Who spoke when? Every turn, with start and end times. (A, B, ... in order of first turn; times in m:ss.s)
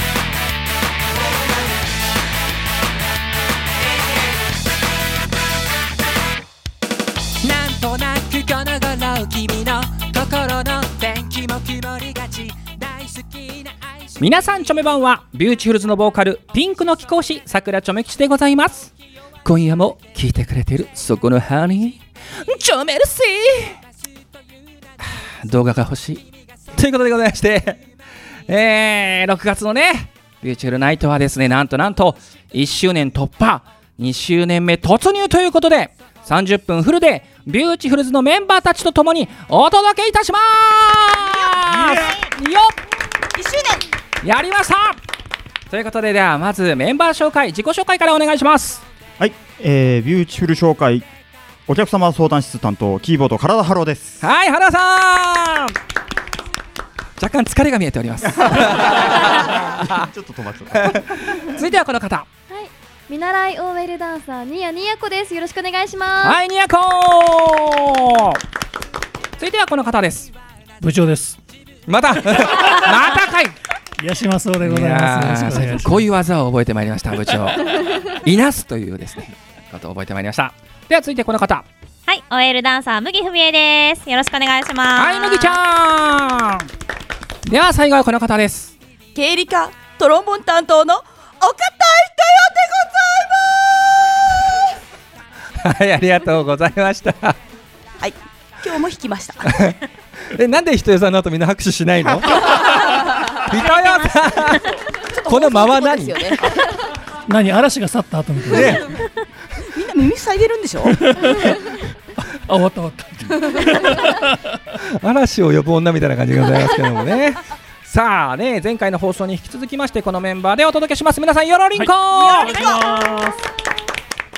0:07.4-0:13.9 A
0:14.2-0:18.9 B
0:19.4-0:23.8 B
0:25.0-0:27.8 B
0:28.5-0:42.7 B
0:43.3-0:43.9 C
0:44.2-0:45.0 B
0:45.7-0:48.8 B
0:49.2-0:51.1 D
0:51.7-0:54.2 D
0:54.2-0:55.7 B
0:57.2-1:00.0 B
0:58.5-1:01.6 D
1:00.8-1:02.3 B
1:02.5-1:06.4 E
1:06.2-1:08.4 B
1:09.4-1:10.3 B
1:10.8-1:11.4 F
1:11.9-1:13.6 B
1:12.3-1:12.7 F
1:14.0-1:16.1 F
1:14.6-1:21.6 B
1:22.1-1:25.6 G
1:25.0-1:26.7 B
1:27.4-1:28.7 B
1:29.1-1:33.7 C
1:35.6-1:37.4 B
1:38.0-1:39.6 C
1:39.4-1:44.6 B
1:43.5-1:44.5 G
1:44.4-1:46.7 C
1:45.2-1:46.6 B
1:47.2-1:48.9 F
1:48.5-1:48.9 B
1:49.6-1:51.0 C
1:50.8-1:54.6 F
1:54.8-2:02.6 B
2:01.8-2:03.4 F
2:02.2-2:02.9 C